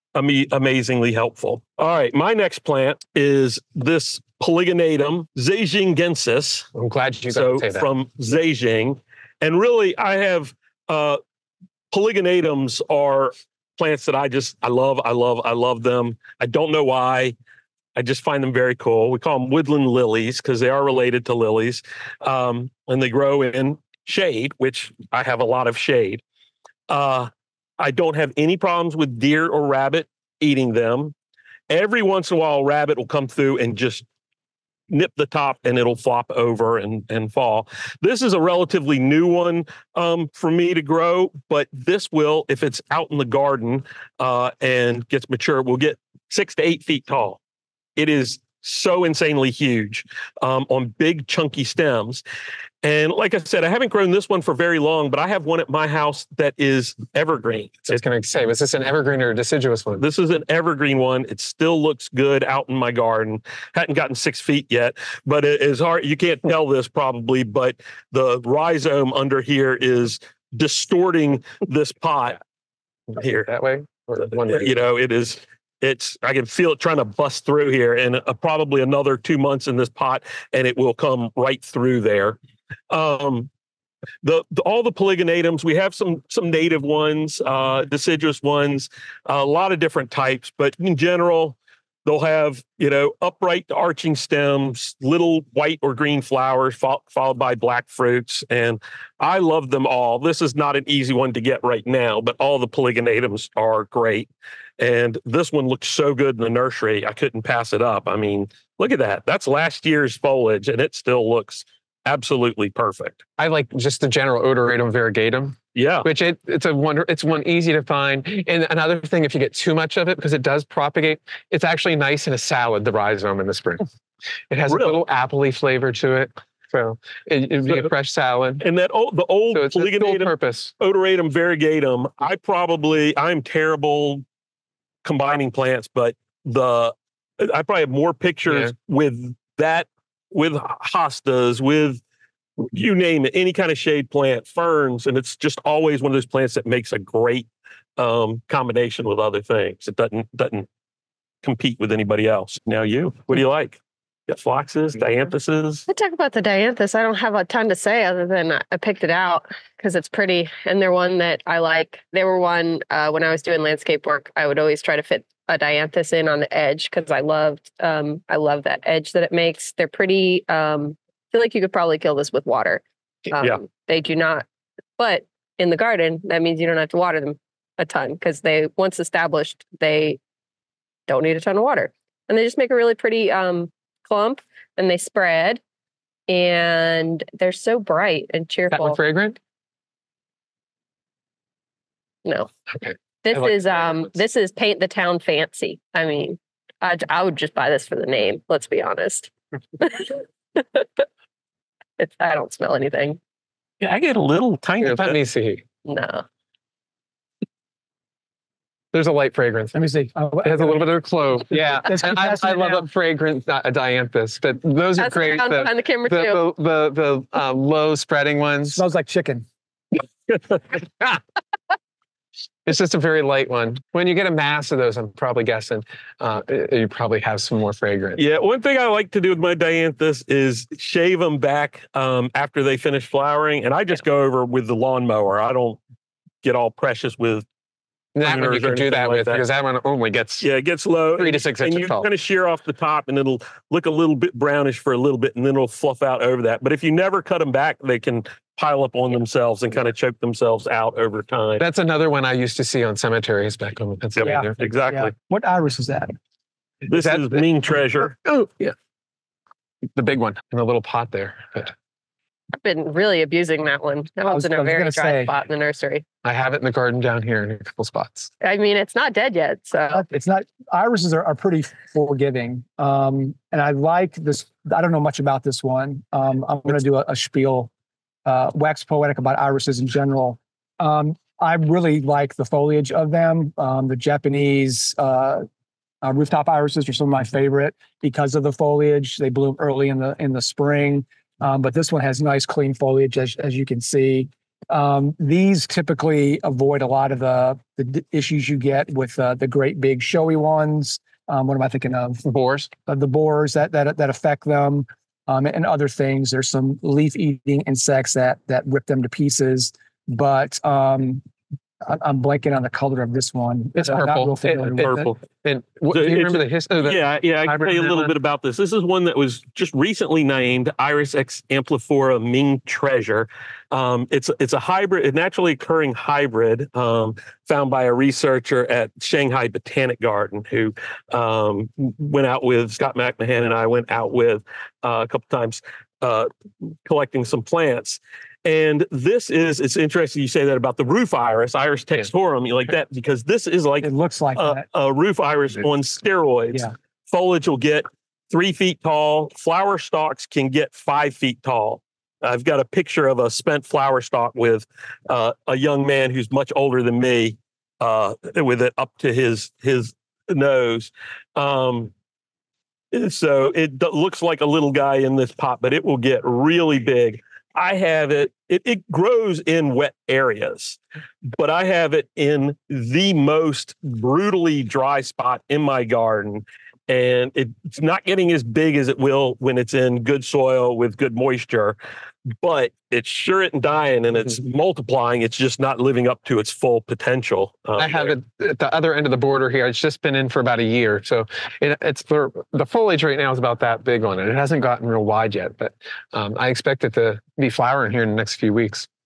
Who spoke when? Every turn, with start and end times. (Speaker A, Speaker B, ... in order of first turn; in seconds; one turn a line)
Speaker A: 0.1-6.7
Speaker B: 6.7-7.9
Speaker A: 7.3-11.2
Speaker A: 11.9-17.3
Speaker A: 17.9-26.2
Speaker A: 26.9-31.1
Speaker A: 31.7-34.0
Speaker A: 34.9-47.4
Speaker A: 48.0-52.2
Speaker A: 52.8-58.0
Speaker B: 57.9-60.0
Speaker A: 60.0-72.4
Speaker B: 73.1-74.8
Speaker A: 73.2-73.5
Speaker A: 74.2-82.4
Speaker A: 82.9-83.5
Speaker A: 84.2-113.2
Speaker B: 113.4-123.8
Speaker A: 115.7-116.1
Speaker B: 124.5-128.6
Speaker A: 124.7-125.0
Speaker A: 128.6-134.2
Speaker B: 129.5-130.7
Speaker A: 135.0-142.0
Speaker A: 142.6-150.7
Speaker A: 151.4-155.8
Speaker C: 155.9-174.4
Speaker C: 175.0-180.2
Speaker C: 181.1-185.6
Speaker C: 186.3-189.0
Speaker B: 188.7-189.4
Speaker C: 192.2-192.5
Speaker B: 192.8-194.1
Speaker C: 193.2-201.0
Speaker C: 202.0-203.2
Speaker A: 203.8-205.2
Speaker B: 204.8-205.6
Speaker C: 205.8-206.2
Speaker B: 208.9-209.8
Speaker D: 209.7-210.8
Speaker B: 210.4-218.8
Speaker D: 211.5-212.9
Speaker C: 215.0-216.4
Speaker D: 218.7-219.4
Speaker A: 220.3-220.6
Speaker B: 220.7-221.2
Speaker B: 222.7-228.2
Speaker A: 228.2-235.8
Speaker A: 236.4-237.4
Speaker B: 238.1-240.5
Speaker A: 238.2-239.4
Speaker A: 240.4-251.6
Speaker B: 241.2-242.1
Speaker B: 251.6-254.7
Speaker A: 254.2-255.1
Speaker D: 254.2-256.1
Speaker A: 256.9-258.1
Speaker B: 256.9-257.4
Speaker B: 258.0-258.7
Speaker B: 259.9-261.7
Speaker C: 262.6-266.0
Speaker D: 264.3-265.3
Speaker B: 266.2-268.3
Speaker C: 268.4-270.0
Speaker D: 269.9-277.7
Speaker D: 278.2-285.4
Speaker D: 286.0-302.2
Speaker B: 302.2-302.7
Speaker D: 302.9-311.2
Speaker D: 311.8-315.1
Speaker B: 313.8-318.1
Speaker A: 314.8-315.1
Speaker A: 315.9-361.9
Speaker D: 343.8-344.6
Speaker A: 362.9-370.8
Speaker A: 371.3-381.8
Speaker A: 382.4-388.1
Speaker B: 387.8-398.9